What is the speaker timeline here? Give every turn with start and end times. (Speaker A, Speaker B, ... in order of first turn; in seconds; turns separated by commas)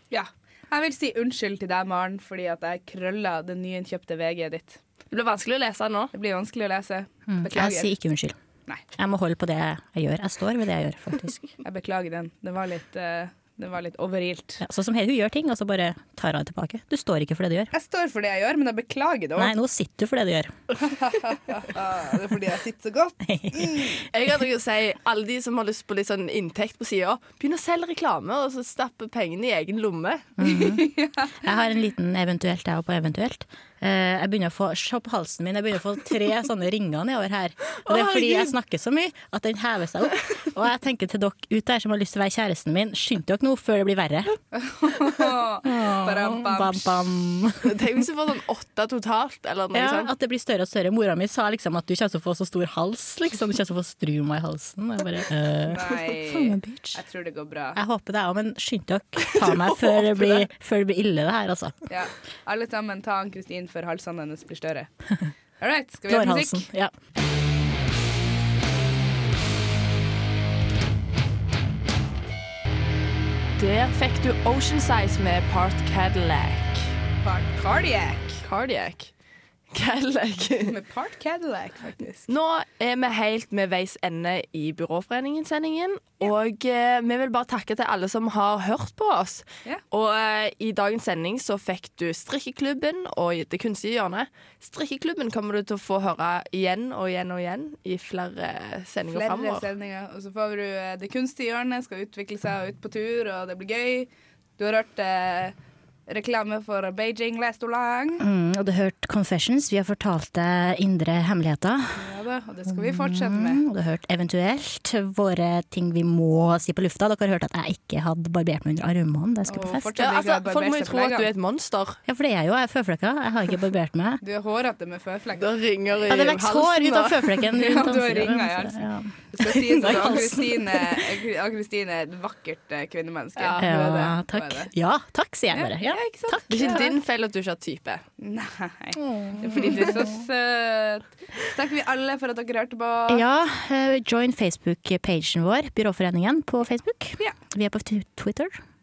Speaker A: 0.1-4.8, Speaker B: 5.1-6.1, Speaker A: 6.1-7.9, Speaker C: 7.3-8.3, Speaker C: 8.9-11.5, Speaker A: 11.6-14.6, Speaker C: 14.6-17.7, Speaker A: 17.7-19.5, Speaker C: 19.4-20.5, Speaker A: 20.8-24.0, Speaker C: 23.2-24.0, Speaker B: 24.1-30.3, Speaker C: 30.4-44.4, Speaker A: 30.4-31.3, Speaker B: 37.8-38.5, Speaker A: 44.5-46.9, Speaker C: 45.6-47.7, Speaker B: 47.6-50.1, Speaker C: 49.7-57.0, Speaker A: 55.7-57.8, Speaker C: 57.8-61.8, Speaker A: 61.9-64.9, Speaker A: 65.6-66.7, Speaker C: 66.1-66.9, Speaker B: 73.6-76.9, Speaker A: 77.2-78.4, Speaker B: 78.4-79.1, Speaker B: 79.7-80.7, Speaker A: 80.6-82.3, Speaker B: 82.3-99.7, Speaker A: 99.1-105.5, Speaker A: 106.1-108.2, Speaker C: 108.2-112.0, Speaker A: 112.0-113.6, Speaker C: 112.7-119.9, Speaker A: 119.5-121.3, Speaker B: 120.0-122.0, Speaker C: 122.1-124.2, Speaker A: 124.2-126.1, Speaker B: 125.4-127.3, Speaker C: 126.1-130.8, Speaker A: 127.6-134.7, Speaker B: 133.4-134.0, Speaker C: 133.6-136.8, Speaker A: 135.5-136.9, Speaker B: 136.5-138.0, Speaker A: 138.2-143.2, Speaker C: 139.0-140.0, Speaker C: 143.1-148.6